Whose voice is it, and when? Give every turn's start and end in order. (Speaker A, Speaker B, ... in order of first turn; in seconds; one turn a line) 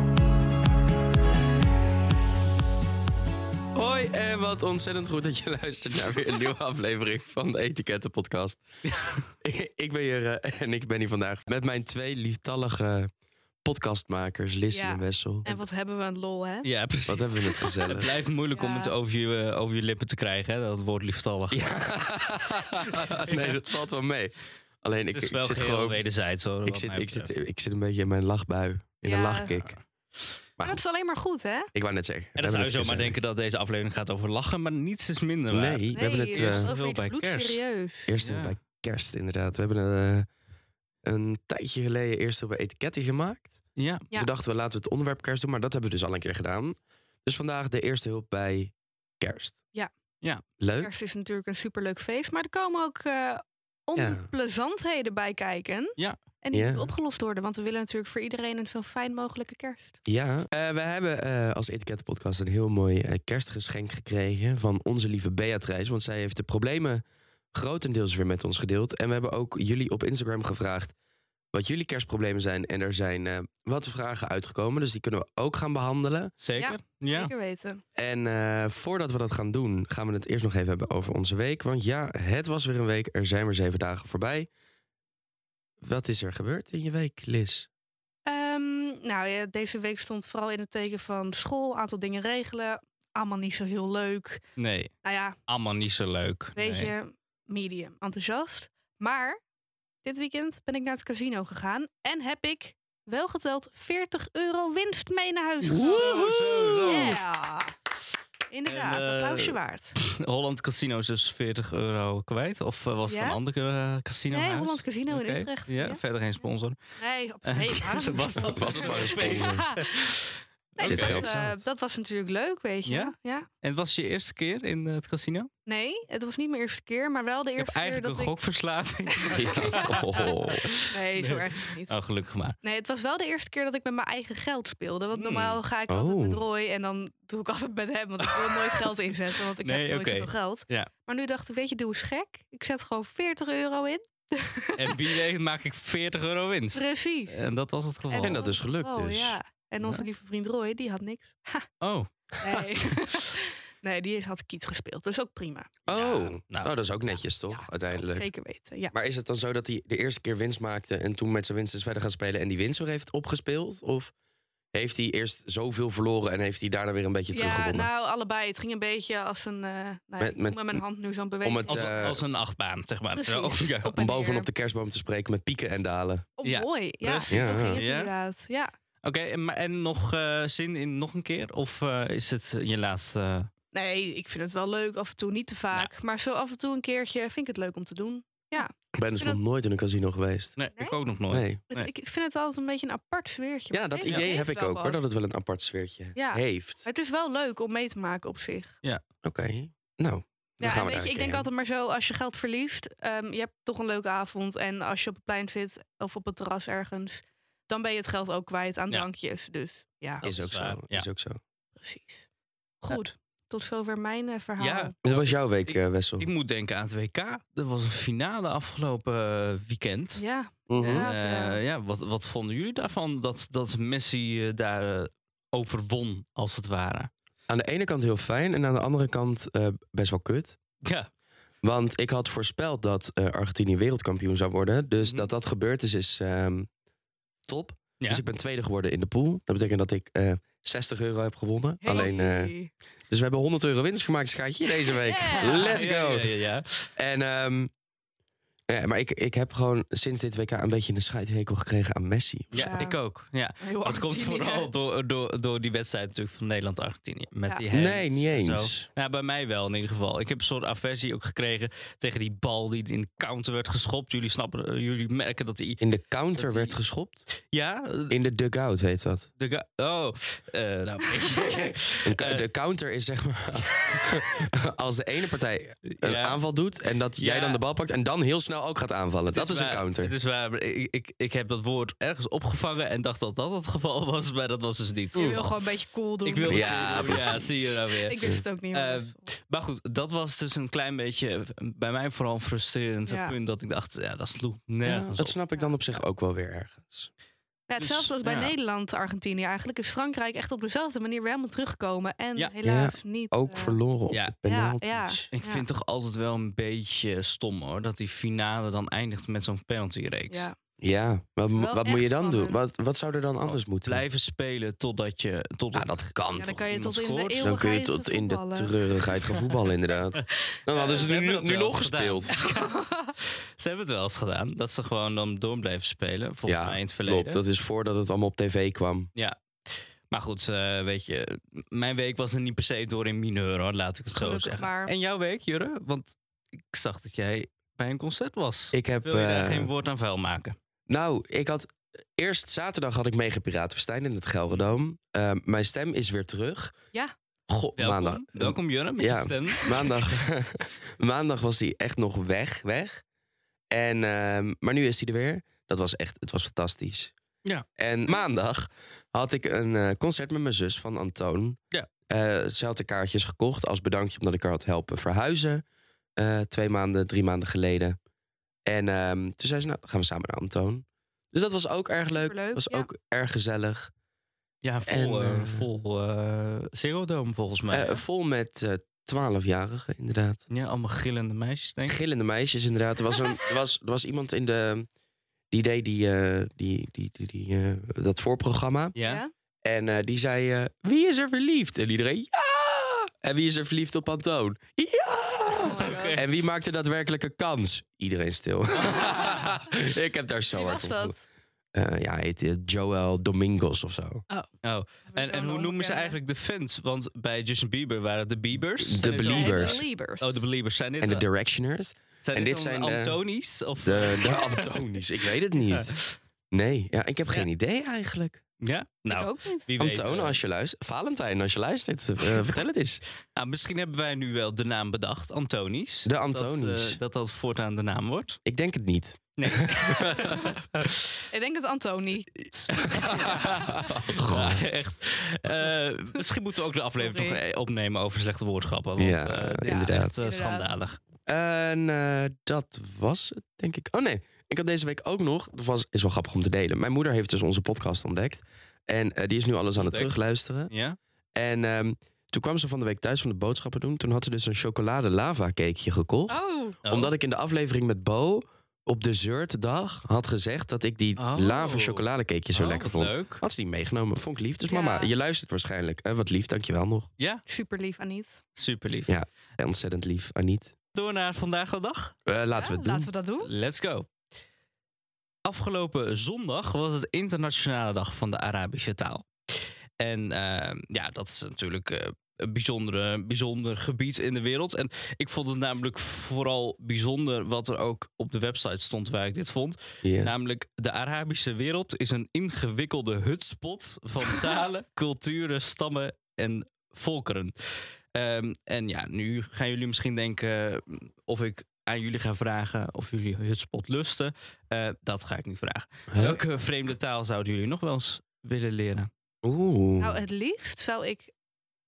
Speaker A: 3.7-8.6
Speaker B: 8.9-9.2
Speaker A: 9.4-13.1
Speaker A: 13.6-15.6
Speaker C: 14.7-16.7
Speaker B: 16.6-21.6
Speaker A: 17.1-18.1
Speaker C: 18.5-18.9
Speaker A: 21.5-26.0
Speaker B: 22.8-23.6
Speaker B: 25.1-27.3
Speaker A: 26.6-29.8
Speaker C: 29.0-29.6
Speaker C: 30.6-31.7
Speaker A: 31.7-33.2
Speaker B: 32.4-37.6
Speaker A: 35.5-36.7
Speaker C: 35.9-38.1
Speaker A: 38.0-40.3
Speaker B: 38.2-38.6
Speaker A: 41.0-43.6
Speaker B: 43.8-44.1
Speaker A: 44.1-49.6
Speaker A: 50.6-50.9
Speaker C: 50.8-60.0
Speaker A: 54.0-54.3
Speaker A: 56.5-56.9
Speaker A: 60.0-70.9
Speaker A: 71.5-76.3
Speaker B: 76.4-77.3
Speaker C: 76.6-77.8
Speaker A: 78.0-84.5
Speaker A: 85.8-87.7
Speaker C: 88.3-94.4
Speaker B: 94.6-94.9
Speaker C: 95.0-95.4
Speaker B: 95.5-96.9
Speaker C: 96.6-99.4
Speaker C: 100.0-106.2
Speaker A: 105.6-107.1
Speaker B: 105.7-107.2
Speaker C: 106.8-107.7
Speaker C: 108.5-110.0
Speaker B: 108.7-116.8
Speaker C: 113.1-113.4
Speaker C: 114.3-116.0
Speaker C: 117.0-120.2
Speaker B: 117.5-121.3
Speaker A: 118.4-119.7
Speaker C: 120.8-123.5
Speaker A: 120.8-121.6
Speaker B: 122.9-125.5
Speaker C: 125.7-128.3
Speaker B: 127.6-132.6
Speaker C: 129.1-130.3
Speaker A: 129.3-130.7
Speaker C: 130.8-131.9
Speaker C: 132.6-145.1
Speaker B: 135.1-135.6
Speaker A: 135.9-136.4
Speaker B: 138.3-138.7
Speaker B: 139.6-140.9
Speaker B: 144.8-148.4
Speaker C: 146.7-147.4
Speaker C: 148.1-151.7
Speaker A: 148.2-149.4
Speaker B: 151.8-152.1
Speaker C: 152.4-155.7
Speaker A: 155.9-158.3
Speaker B: 155.9-156.7
Speaker C: 157.5-158.9
Speaker A: 158.9-164.1
Speaker A: 164.7-167.9
Speaker C: 167.3-172.0
Speaker A: 170.2-170.8
Speaker A: 171.4-172.2
Speaker B: 171.7-174.0
Speaker C: 173.2-174.5
Speaker A: 173.9-176.3
Speaker C: 176.4-178.7
Speaker B: 176.4-178.1
Speaker A: 177.3-177.8
Speaker B: 179.0-183.5
Speaker C: 183.7-189.4
Speaker A: 188.9-190.6
Speaker B: 190.6-191.9
Speaker A: 191.3-191.6
Speaker C: 191.7-195.1
Speaker A: 193.7-196.8
Speaker B: 194.0-194.3
Speaker C: 196.2-198.8
Speaker A: 199.2-201.5
Speaker C: 200.6-210.2
Speaker B: 210.2-211.1
Speaker A: 210.2-211.4
Speaker C: 211.8-212.2
Speaker C: 212.8-214.9
Speaker B: 214.6-220.2
Speaker A: 215.0-216.3
Speaker C: 220.2-221.6
Speaker A: 220.7-221.1
Speaker B: 220.8-227.1
Speaker A: 227.5-230.6
Speaker B: 230.8-231.1
Speaker A: 231.6-236.7
Speaker B: 235.0-235.3
Speaker A: 237.5-242.5
Speaker C: 241.8-242.7
Speaker A: 243.1-246.3
Speaker C: 245.0-245.7
Speaker B: 245.4-246.9
Speaker A: 247.0-247.7
Speaker A: 248.7-252.7
Speaker B: 252.5-265.8
Speaker C: 252.6-253.0
Speaker C: 253.6-254.7
Speaker A: 257.7-258.9
Speaker A: 265.8-267.3
Speaker B: 266.4-266.7
Speaker B: 267.4-268.2
Speaker A: 268.1-269.3
Speaker B: 269.4-272.4
Speaker A: 272.0-280.1
Speaker B: 273.7-274.1
Speaker B: 275.9-276.4
Speaker B: 277.2-277.6
Speaker B: 279.3-285.7
Speaker C: 285.1-289.2
Speaker B: 286.2-295.3
Speaker A: 286.4-288.4
Speaker C: 293.1-293.4
Speaker A: 294.9-297.1
Speaker C: 297.7-303.8
Speaker B: 297.8-298.5
Speaker A: 302.6-305.2
Speaker B: 304.1-304.4
Speaker C: 304.5-305.7
Speaker B: 305.3-310.5
Speaker C: 310.3-310.6
Speaker A: 310.8-314.0
Speaker C: 311.6-312.6
Speaker B: 313.8-316.1
Speaker A: 315.7-316.6
Speaker C: 316.3-318.7
Speaker B: 316.7-317.5
Speaker A: 317.4-322.4
Speaker B: 320.7-327.4
Speaker C: 322.3-323.1
Speaker A: 326.5-329.1
Speaker B: 329.2-336.2
Speaker C: 334.1-334.9
Speaker B: 336.7-340.6
Speaker A: 338.7-339.7
Speaker A: 340.9-346.8
Speaker A: 347.5-353.0
Speaker B: 347.8-350.2
Speaker A: 353.7-357.1
Speaker A: 357.8-365.6
Speaker A: 366.2-368.0
Speaker A: 368.7-373.9
Speaker C: 372.1-372.9
Speaker B: 374.6-378.0
Speaker A: 374.9-375.7
Speaker A: 377.7-380.4
Speaker B: 380.5-382.0
Speaker A: 381.9-384.9
Speaker A: 385.5-388.9
Speaker B: 389.0-389.2
Speaker C: 389.0-389.3
Speaker A: 389.6-401.1
Speaker C: 395.5-396.2
Speaker B: 395.7-396.3
Speaker B: 398.9-399.3
Speaker C: 400.5-401.2
Speaker A: 401.7-404.2
Speaker B: 404.6-411.2
Speaker C: 405.1-406.2
Speaker A: 408.8-409.8
Speaker C: 409.0-410.3
Speaker A: 411.0-413.2
Speaker B: 412.2-414.7
Speaker A: 413.8-416.0
Speaker B: 415.7-416.1
Speaker A: 416.5-418.4
Speaker B: 418.6-420.4
Speaker C: 419.1-419.7
Speaker A: 419.8-423.0
Speaker B: 423.4-428.4
Speaker A: 426.1-427.0
Speaker A: 428.4-430.5
Speaker B: 429.4-431.2
Speaker C: 431.3-433.9
Speaker B: 432.5-441.0
Speaker A: 432.9-434.7
Speaker C: 437.0-437.4
Speaker A: 439.0-440.1
Speaker C: 439.6-440.7
Speaker A: 441.3-450.7
Speaker B: 449.8-451.0
Speaker A: 451.4-467.1
Speaker C: 456.3-456.8
Speaker B: 456.9-457.1
Speaker B: 461.2-463.4
Speaker C: 464.7-465.1
Speaker B: 467.2-467.4
Speaker C: 467.5-468.4
Speaker B: 468.6-469.1
Speaker A: 469.1-470.8
Speaker B: 470.9-472.2
Speaker A: 472.3-473.1
Speaker C: 472.6-473.5
Speaker B: 473.4-474.1
Speaker B: 475.4-509.1
Speaker A: 490.0-490.3
Speaker A: 506.1-506.4
Speaker A: 509.4-510.2
Speaker C: 510.0-511.3